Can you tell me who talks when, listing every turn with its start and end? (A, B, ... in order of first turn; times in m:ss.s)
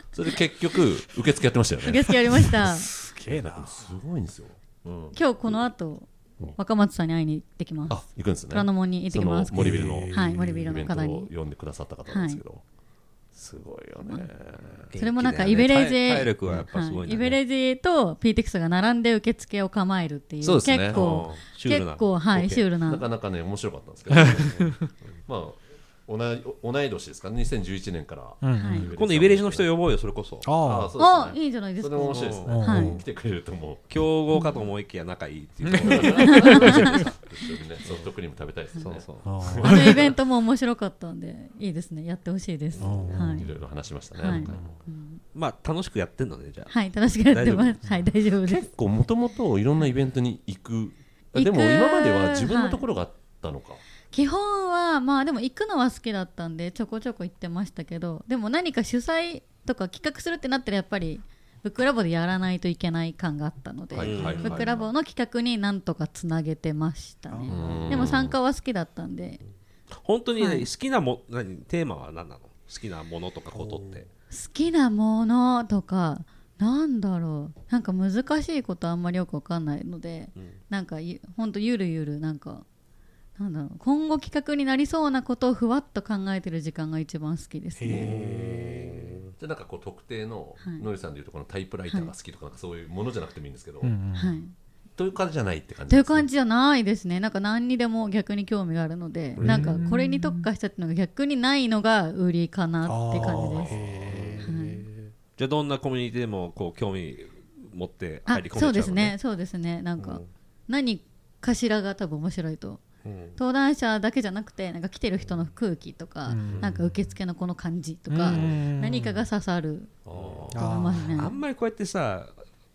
0:00.1-0:02.5 A
0:01.8-0:02.9 B
0:02.6-0:03.9 C
0:03.3-0:05.2 A
0:05.1-0:11.3 B
0:07.9-0:12.6 A
0:09.5-0:10.8 C
0:12.1-0:12.4 B
0:13.3-0:14.9 A
0:14.9-0:17.4 D
0:15.0-0:23.0 B
0:20.4-0:21.0 A
0:20.9-0:22.6 D
0:22.8-0:29.7 A
0:24.2-0:24.7 D
0:24.2-0:24.5 C
0:28.4-0:28.9 C
0:28.6-0:28.9 B
0:28.9-0:30.5 D
0:30.4-0:30.9 C
0:30.6-0:33.9 A
0:31.0-0:33.0 B
0:32.1-0:32.5 D
0:32.5-0:33.0 C
0:33.9-0:37.1 D
0:35.7-0:37.0 C
0:35.8-0:40.2 A
0:36.2-0:36.8 B
0:38.8-0:39.3 D
0:39.2-0:40.0 C
0:39.6-0:43.5 B
0:42.8-0:43.5 C
0:43.3-0:44.8 A
0:44.2-0:45.2 B
0:44.4-0:44.7 C
0:45.3-0:46.7 D
0:46.7-0:48.7 B
0:47.3-0:47.8 D
0:48.5-0:53.8 A
0:51.3-0:52.8 B
0:54.1-1:09.4 B
1:03.9-1:04.8 A
1:04.0-1:04.7 D
1:07.3-1:08.1 C
1:07.5-1:08.4 A
1:09.9-1:14.1 D
1:10.4-1:10.6 B
1:13.5-1:14.0 C
1:14.3-1:22.6 B
1:23.4-1:28.1 B
1:27.8-1:29.2 C
1:27.9-1:28.1 A
1:27.9-1:29.3 D
1:29.4-1:33.9 A
1:30.6-1:30.9 B
1:33.8-1:34.4 C
1:34.1-1:34.5 B
1:35.0-1:36.3 A
1:35.9-1:43.8 B
1:39.4-1:39.8 D
1:39.4-1:40.5 C
1:42.8-1:44.5 C
1:43.6-1:44.2 A
1:44.0-1:44.7 D
1:44.4-1:44.8 B
1:45.3-1:49.2 D
1:48.3-1:52.8 B
1:50.0-1:50.3 D
1:53.0-1:53.4 D
1:53.4-2:00.0 B
1:56.2-1:57.0 C
1:58.1-1:59.2 C
2:00.0-2:00.6 A
2:00.1-2:00.5 D
2:00.5-2:01.4 B
2:00.5-2:01.2 C
2:01.1-2:02.4 D